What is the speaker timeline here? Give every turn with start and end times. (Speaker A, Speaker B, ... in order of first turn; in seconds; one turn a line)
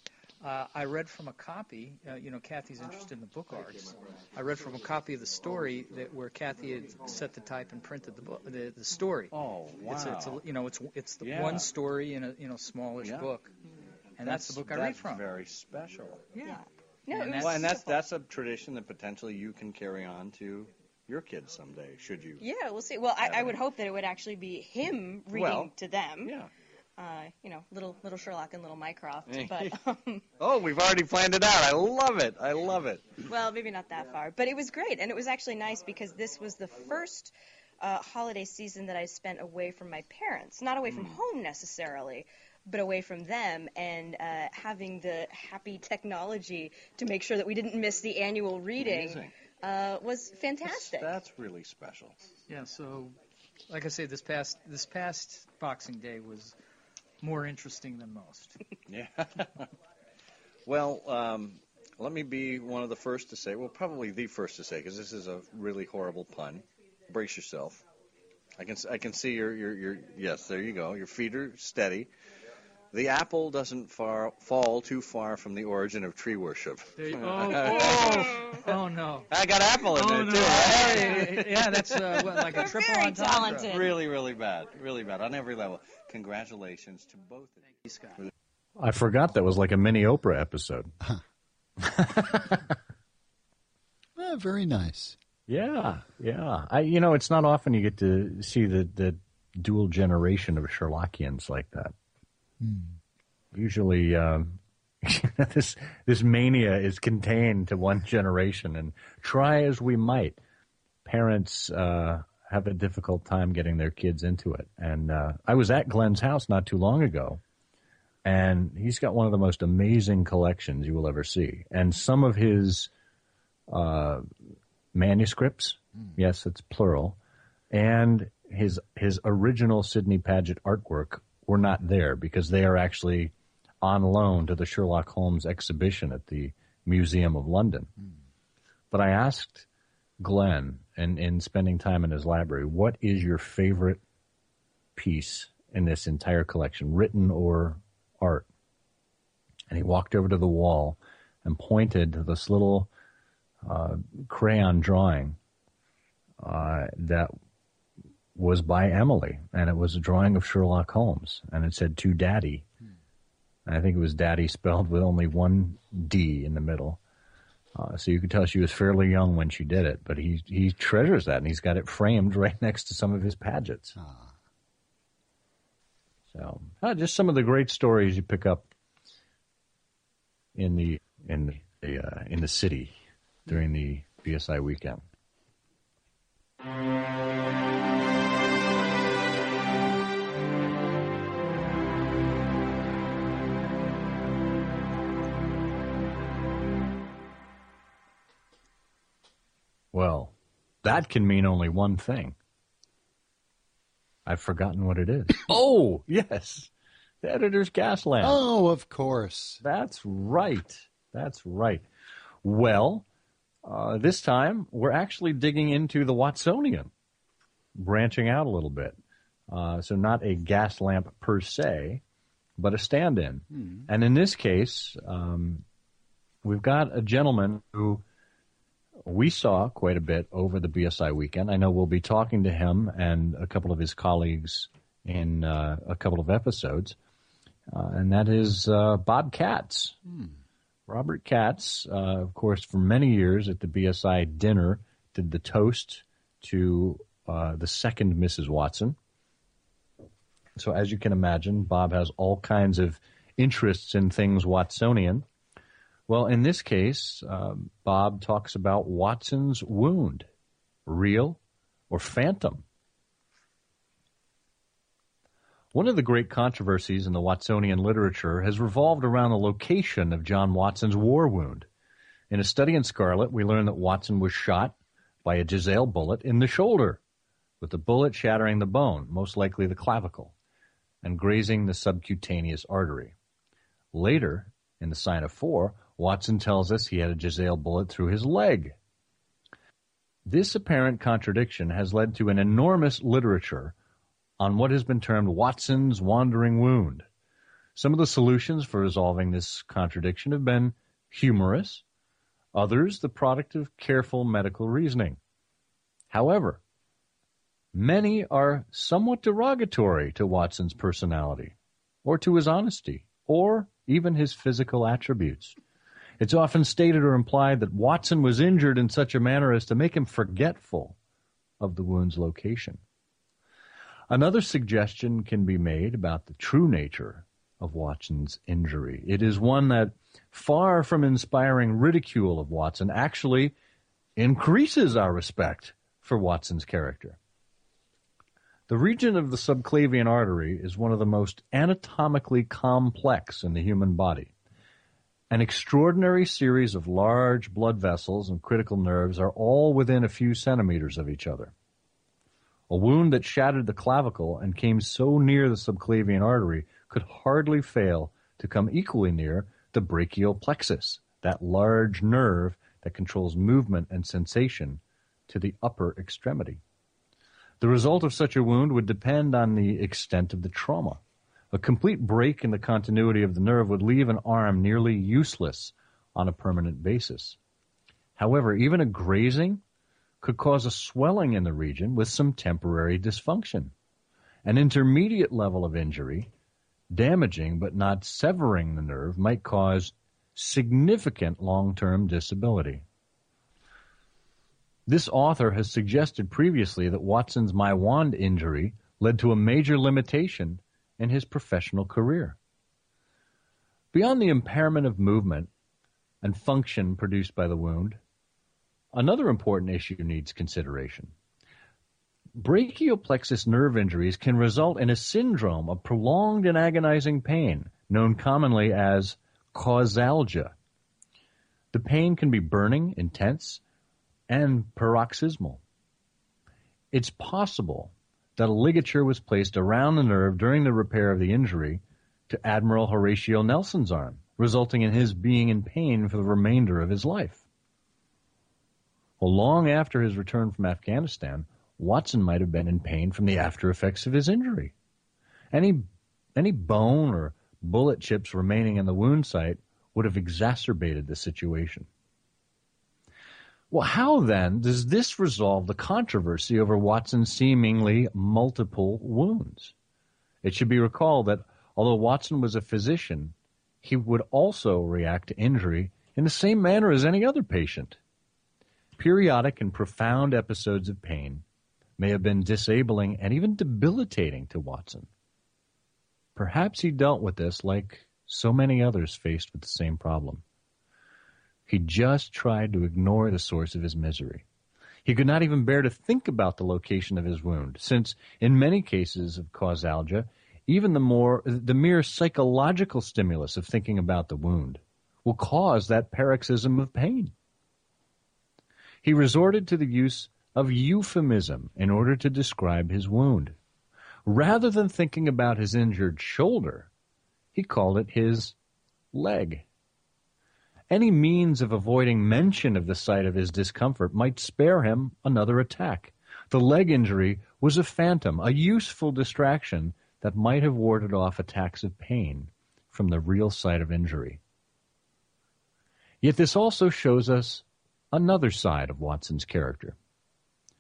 Speaker A: 0.4-9.3
Speaker B: 9.3-10.4
Speaker A: 9.8-13.5
Speaker B: 11.2-11.7
Speaker B: 13.0-13.3
Speaker A: 14.2-15.3
Speaker B: 14.2-16.3
Speaker C: 16.4-18.0
Speaker A: 17.1-17.6
Speaker B: 17.2-22.4
Speaker C: 22.4-26.4
Speaker B: 23.2-23.6
Speaker B: 25.3-25.7
Speaker B: 26.2-26.5
Speaker C: 27.0-30.2
Speaker B: 29.3-29.7
Speaker B: 30.4-33.1
Speaker C: 33.3-51.1
Speaker B: 40.9-41.2
Speaker B: 48.8-49.3
Speaker B: 50.6-52.2
Speaker A: 52.5-53.2
Speaker A: 53.7-56.6
Speaker A: 57.2-58.6
Speaker B: 58.9-59.7
Speaker B: 60.7-67.8
Speaker B: 68.6-72.1
Speaker B: 72.9-78.6
Speaker A: 77.0-79.3
Speaker B: 79.3-82.4
Speaker A: 79.8-83.7
Speaker C: 82.6-84.0
Speaker B: 83.6-87.6
Speaker A: 87.6-88.2
Speaker D: 88.8-90.9
Speaker D: 91.8-92.7
Speaker E: 94.2-95.2
Speaker D: 95.5-101.9
Speaker E: 102.6-103.0
Speaker D: 103.5-110.4
Speaker D: 111.0-117.4
Speaker D: 118.2-122.9
Speaker D: 123.7-124.3
Speaker D: 124.9-127.2
Speaker D: 127.7-137.9
Speaker D: 138.9-139.7
Speaker D: 140.2-144.0
Speaker D: 145.0-148.5
Speaker D: 149.7-152.9
Speaker D: 153.6-155.4
Speaker D: 156.4-157.3
Speaker D: 158.3-162.7
Speaker D: 163.7-167.0
Speaker D: 167.8-173.9
Speaker E: 174.0-174.4
Speaker D: 176.3-178.7
Speaker D: 180.6-183.0
Speaker D: 183.5-185.0
Speaker D: 199.9-202.4
Speaker D: 204.2-206.7
Speaker D: 207.2-208.4
Speaker E: 208.2-209.6
Speaker D: 209.6-211.9
Speaker D: 212.4-213.1
Speaker D: 213.6-216.9
Speaker D: 217.8-219.0
Speaker D: 219.5-222.0
Speaker D: 222.6-225.7
Speaker E: 223.5-223.9
Speaker D: 226.4-228.0
Speaker D: 229.1-237.0
Speaker D: 237.7-240.0
Speaker E: 240.1-240.3
Speaker D: 240.9-249.0
Speaker D: 250.6-255.3
Speaker D: 256.1-260.3
Speaker D: 260.9-262.6
Speaker D: 265.7-271.7
Speaker D: 272.3-277.0
Speaker D: 277.6-280.3
Speaker D: 281.0-283.1
Speaker D: 283.9-288.8
Speaker D: 290.2-293.8
Speaker D: 294.4-297.1
Speaker D: 297.8-301.8
Speaker D: 302.5-305.2
Speaker D: 306.1-306.6
Speaker D: 307.7-315.6
Speaker D: 316.2-321.0
Speaker D: 321.6-322.8
Speaker D: 324.1-333.6
Speaker D: 334.2-337.2
Speaker D: 338.7-344.3
Speaker D: 345.3-351.5
Speaker D: 352.7-366.6
Speaker D: 367.6-371.0
Speaker D: 371.5-377.4
Speaker D: 378.2-379.6
Speaker D: 380.2-383.7
Speaker D: 384.4-386.3
Speaker D: 386.9-392.9
Speaker D: 394.9-402.4
Speaker D: 403.9-405.5
Speaker D: 406.2-408.0
Speaker D: 408.9-411.1
Speaker D: 412.4-420.6
Speaker D: 421.7-423.6
Speaker D: 424.3-425.6
Speaker D: 426.9-437.4
Speaker D: 439.2-444.7
Speaker D: 445.5-451.9
Speaker D: 453.7-459.7
Speaker D: 460.4-468.0
Speaker D: 469.0-471.4
Speaker D: 472.0-475.1
Speaker D: 476.4-480.4
Speaker D: 481.7-484.4
Speaker D: 485.1-497.3
Speaker D: 499.0-503.6
Speaker D: 504.2-506.9
Speaker D: 507.6-508.6
Speaker D: 509.1-509.6
Speaker D: 510.9-524.4
Speaker D: 526.2-530.0